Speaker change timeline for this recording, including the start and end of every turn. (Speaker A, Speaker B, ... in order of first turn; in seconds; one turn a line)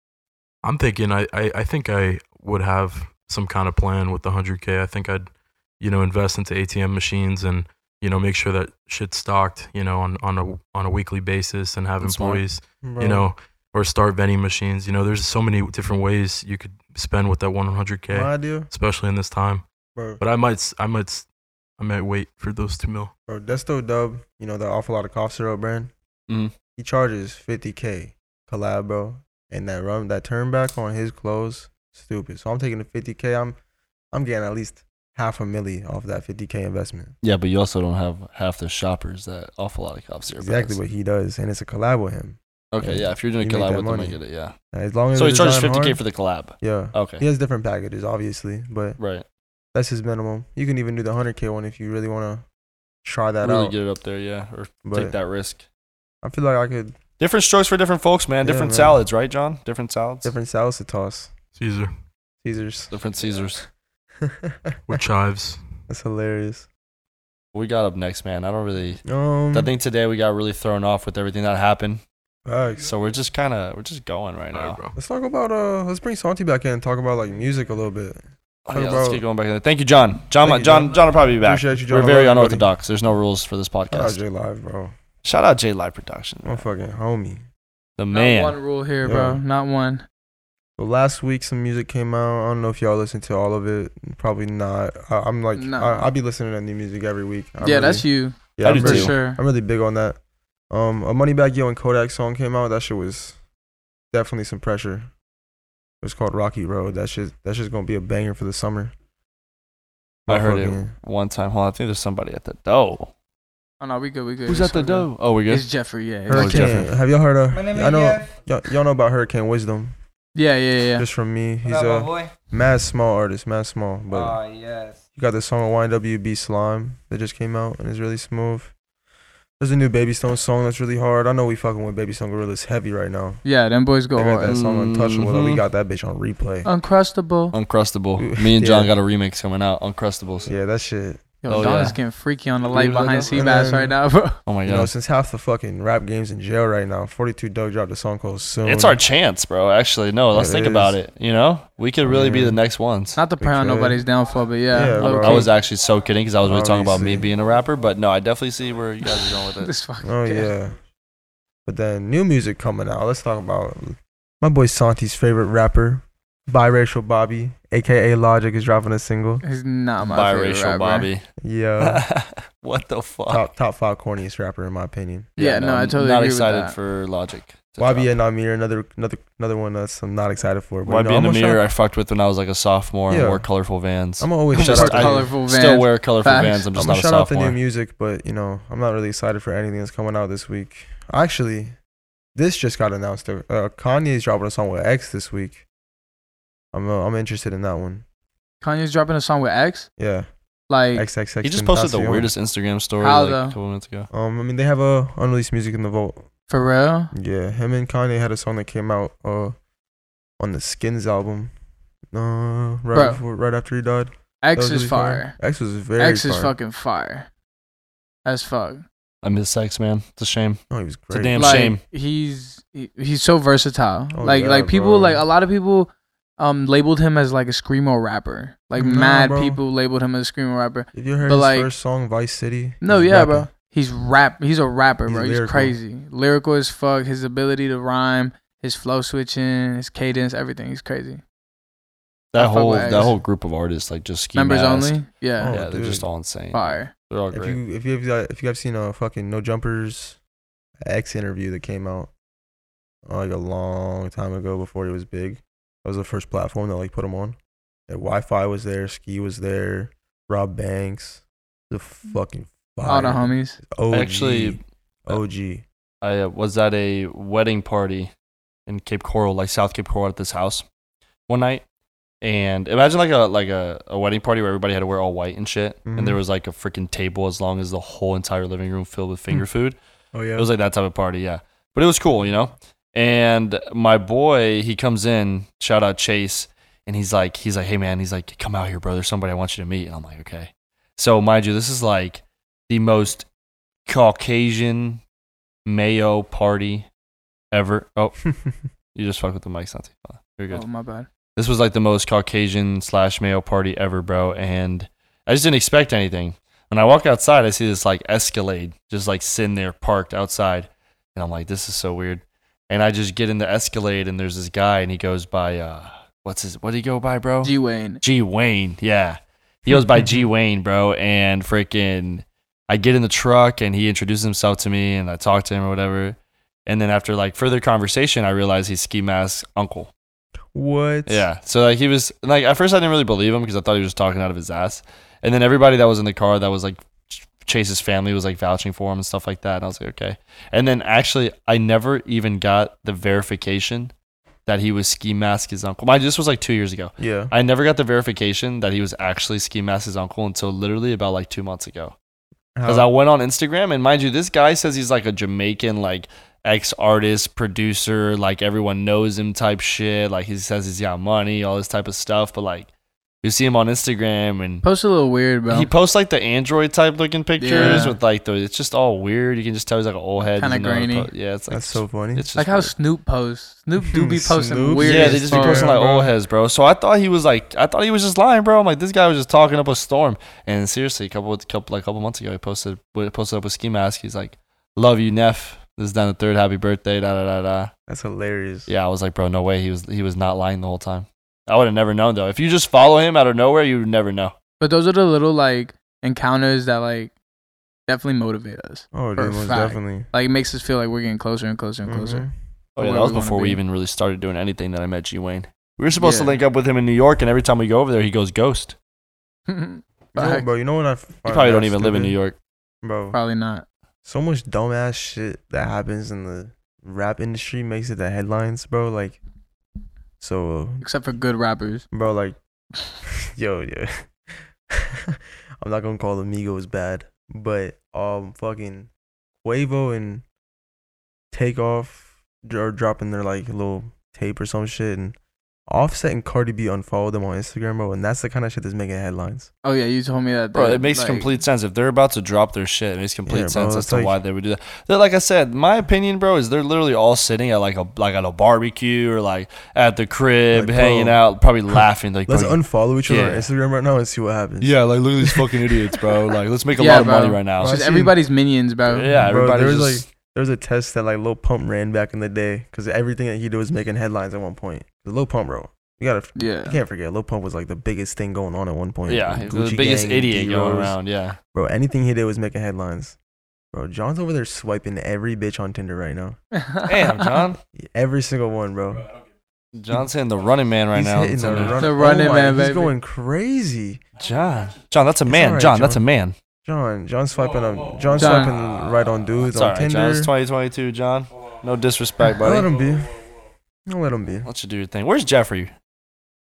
Speaker A: 0.6-19.6
Speaker B: 12.0-12.4
Speaker C: 12.8-13.3
Speaker C: 18.1-18.7
Speaker C: 19.9-20.2
Speaker A: 20.2-23.1
Speaker C: 23.3-25.9
Speaker B: 26.3-26.5
Speaker C: 26.8-33.6
Speaker C: 34.1-37.1
Speaker B: 37.2-40.8
Speaker C: 40.3-44.2
Speaker B: 42.7-44.5
Speaker C: 44.7-46.0
Speaker B: 45.1-47.2
Speaker C: 46.6-49.0
Speaker B: 49.0-49.2
Speaker C: 49.7-52.5
Speaker C: 53.0-53.8
Speaker B: 53.4-55.6
Speaker C: 54.9-55.1
Speaker C: 56.2-57.0
Speaker B: 57.2-60.3
Speaker C: 58.4-59.0
Speaker C: 60.2-61.3
Speaker A: 61.6-61.9
Speaker C: 62.4-62.9
Speaker B: 62.9-63.6
Speaker C: 64.2-65.0
Speaker A: 64.9-65.6
Speaker C: 65.9-66.7
Speaker B: 67.5-72.0
Speaker C: 69.0-69.7
Speaker C: 72.5-72.9
Speaker B: 72.8-74.8
Speaker A: 74.5-75.0
Speaker C: 75.0-79.2
Speaker B: 78.7-84.2
Speaker C: 80.4-82.7
Speaker C: 83.9-85.0
Speaker B: 85.2-86.7
Speaker C: 86.4-87.5
Speaker B: 88.0-88.6
Speaker D: 88.1-90.0
Speaker C: 89.0-89.4
Speaker C: 90.8-100.2
Speaker D: 95.6-96.1
Speaker D: 97.6-99.4
Speaker B: 98.6-99.2
Speaker C: 100.7-103.4
Speaker C: 104.1-105.1
Speaker C: 106.0-108.9
Speaker C: 110.3-110.9
Speaker B: 110.3-113.1
Speaker D: 113.8-116.8
Speaker B: 114.5-115.7
Speaker B: 116.3-116.9
Speaker C: 116.3-120.0
Speaker E: 117.5-118.4
Speaker D: 120.3-121.1
Speaker C: 121.0-124.4
Speaker E: 121.7-122.3
Speaker E: 124.1-125.0
Speaker C: 125.2-128.7
Speaker C: 129.6-133.4
Speaker D: 133.4-134.6
Speaker C: 134.1-136.7
Speaker B: 134.5-135.6
Speaker D: 136.7-137.6
Speaker B: 137.5-140.5
Speaker C: 138.2-138.9
Speaker C: 140.5-141.9
Speaker D: 141.4-144.4
Speaker B: 141.5-142.0
Speaker B: 142.7-143.3
Speaker C: 143.3-144.0
Speaker B: 144.5-144.9
Speaker C: 144.6-149.0
Speaker B: 148.6-153.2
Speaker C: 150.3-151.0
Speaker C: 152.0-152.6
Speaker D: 153.2-155.5
Speaker C: 153.4-154.0
Speaker C: 154.7-155.5
Speaker B: 155.0-159.7
Speaker C: 156.4-157.3
Speaker D: 159.3-160.5
Speaker C: 160.0-160.8
Speaker C: 161.7-169.4
Speaker D: 169.4-171.1
Speaker B: 170.0-171.3
Speaker C: 171.4-172.0
Speaker B: 171.8-173.5
Speaker C: 173.3-175.3
Speaker D: 175.4-176.8
Speaker B: 175.4-178.1
Speaker C: 177.8-181.6
Speaker B: 180.9-187.6
Speaker C: 183.1-183.5
Speaker C: 184.2-185.3
Speaker D: 184.5-186.7
Speaker C: 186.7-191.8
Speaker C: 192.3-195.6
Speaker C: 196.7-198.0
Speaker D: 198.6-199.9
Speaker C: 200.0-200.3
Speaker D: 200.7-201.1
Speaker C: 200.9-202.3
Speaker B: 201.4-204.1
Speaker D: 203.0-203.6
Speaker C: 204.1-206.3
Speaker D: 206.5-207.1
Speaker C: 207.1-209.6
Speaker C: 210.4-211.5
Speaker C: 212.1-216.6
Speaker D: 212.9-213.2
Speaker D: 214.4-215.4
Speaker D: 216.0-217.3
Speaker D: 218.2-218.8
Speaker B: 219.2-221.8
Speaker C: 220.7-221.7
Speaker D: 221.4-231.7
Speaker C: 224.1-225.2
Speaker C: 228.8-229.6
Speaker C: 230.9-233.5
Speaker D: 232.8-241.2
Speaker C: 235.1-235.8
Speaker B: 242.3-247.6
Speaker D: 242.4-243.2
Speaker D: 244.3-245.5
Speaker C: 245.4-246.1
Speaker D: 246.5-246.9
Speaker C: 247.3-250.2
Speaker C: 250.8-252.1
Speaker C: 253.1-257.4
Speaker C: 257.9-265.6
Speaker D: 262.9-263.6
Speaker B: 263.9-265.2
Speaker B: 266.0-268.1
Speaker B: 268.7-270.7
Speaker B: 271.3-271.6
Speaker B: 272.2-279.8
Speaker C: 275.9-276.2
Speaker C: 280.1-280.5
Speaker B: 280.4-293.3
Speaker B: 293.9-295.0
Speaker B: 295.7-296.9
Speaker B: 297.5-298.3
Speaker B: 298.9-300.6
Speaker D: 300.5-301.1
Speaker B: 301.4-329.9
Speaker D: 317.4-318.0
Speaker C: 330.5-331.3
Speaker B: 331.1-343.9
Speaker B: 344.5-351.9
Speaker C: 347.0-347.3
Speaker C: 352.6-352.9
Speaker B: 352.6-362.7
Speaker B: 363.2-364.6
Speaker D: 364.6-365.7
Speaker B: 365.5-372.7
Speaker D: 367.4-368.0
Speaker C: 367.5-367.9
Speaker D: 370.2-371.1
Speaker C: 371.5-372.3
Speaker D: 372.4-375.7
Speaker C: 373.8-376.1
Speaker B: 374.8-387.7
Speaker C: 387.9-388.7
Speaker B: 388.7-394.3
Speaker D: 394.6-397.1
Speaker D: 397.9-403.6
Speaker C: 398.9-400.1
Speaker C: 401.8-402.3
Speaker B: 402.8-408.8
Speaker D: 406.0-406.4
Speaker D: 409.5-410.5
Speaker C: 410.1-412.2
Speaker B: 411.3-412.4
Speaker C: 412.8-413.2
Speaker D: 413.1-413.6
Speaker C: 414.1-419.2
Speaker C: 420.2-420.9
Speaker D: 420.8-421.9
Speaker C: 421.9-422.4
Speaker C: 423.0-428.9
Speaker C: 429.4-430.2
Speaker C: 431.3-435.2
Speaker C: 435.7-439.5
Speaker D: 439.6-441.3
Speaker B: 440.5-453.5
Speaker C: 443.3-444.2
Speaker C: 450.5-451.2
Speaker C: 451.7-455.6
Speaker B: 454.6-457.8
Speaker D: 456.8-459.1
Speaker C: 457.6-458.1
Speaker B: 458.9-460.1
Speaker C: 459.2-471.0
Speaker D: 466.4-466.8
Speaker B: 469.1-471.4
Speaker C: 471.5-473.2
Speaker C: 473.7-476.4
Speaker D: 476.5-477.4
Speaker B: 476.9-477.6
Speaker C: 477.8-479.1
Speaker B: 479.7-481.8
Speaker C: 480.9-484.0
Speaker D: 481.8-482.9
Speaker B: 484.2-486.4
Speaker C: 485.2-486.0
Speaker C: 486.6-490.3
Speaker D: 488.2-488.6
Speaker B: 489.5-492.7
Speaker C: 492.4-493.2
Speaker C: 493.9-494.5
Speaker B: 494.4-495.7